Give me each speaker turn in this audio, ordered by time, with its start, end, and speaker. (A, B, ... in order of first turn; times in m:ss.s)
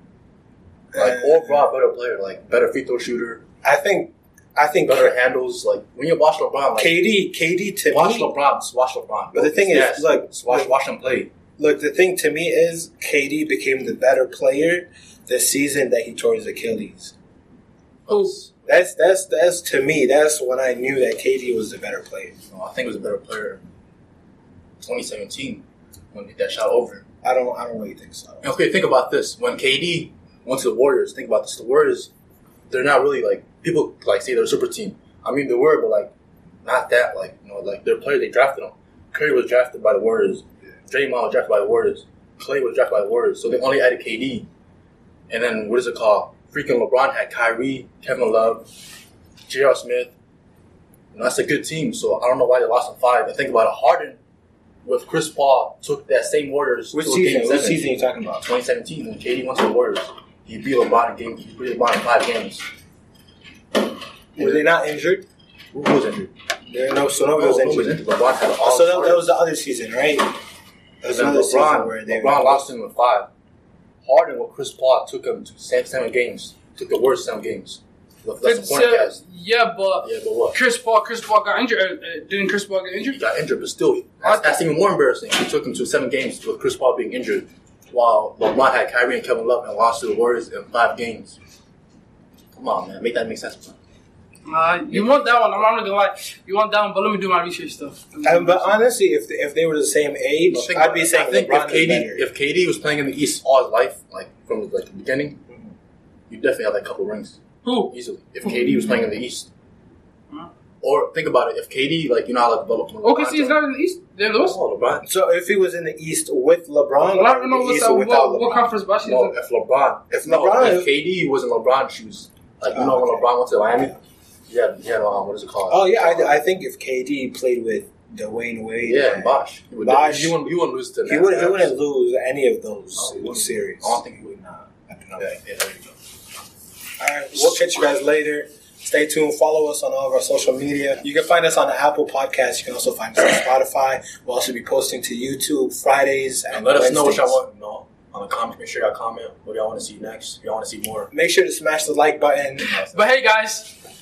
0:00.9-0:01.7 A
0:01.0-0:03.4 B
0:03.6-0:05.2 A
0:04.8-0:07.0 B
0:06.8-0:08.3 A
0:07.9-0:11.3 B
0:09.3-0:10.7 A
0:11.6-0:17.1 A
0:18.0-0:18.8 B
0:18.1-0:18.4 C
0:18.6-0:22.4 A
0:22.5-0:23.7 B
0:24.8-0:27.0 B
0:27.2-0:28.5 A
0:28.4-0:32.1 B
0:32.7-0:36.1 B
0:36.6-0:44.5 B
0:45.3-0:48.7 B
0:49.5-0:50.1 B
0:51.1-0:54.2 B
0:54.8-0:57.8 B
0:56.9-0:58.4 A
0:58.4-1:02.6 B
1:04.4-1:05.2 A
1:04.4-1:04.7 B
1:05.7-1:06.3 B
1:06.7-1:08.0 A
1:07.3-1:09.2 B
1:08.6-1:10.3 A
1:11.0-1:12.6 A
1:11.1-1:13.3 B
1:14.0-1:19.2 B
1:18.4-1:23.2 C
1:20.0-1:20.6 B
1:23.0-1:31.4 B
1:24.2-1:24.6 C
1:32.5-1:33.8 B
1:34.5-1:38.8 C
1:34.9-1:35.6 B
1:38.2-1:42.2 A
1:40.5-1:45.4 B
1:46.3-1:49.5 B
1:47.6-1:47.9 C
1:50.8-1:53.6 B
1:53.0-1:54.6 C
1:54.4-1:55.0 B
1:55.0-1:58.7 A
1:57.1-1:59.3 C
1:59.0-2:04.0 B
2:00.1-2:00.9 A
2:02.7-2:03.2 A
2:04.5-2:06.4 B
2:05.7-2:10.4 A
2:08.8-2:11.7 B
2:11.0-2:14.0 A
2:12.9-2:15.9 B
2:14.9-2:15.3 A
2:17.0-2:27.4 A
2:26.5-2:31.1 B
2:31.1-2:32.8 A
2:32.6-2:33.1 B
2:32.9-2:33.7 C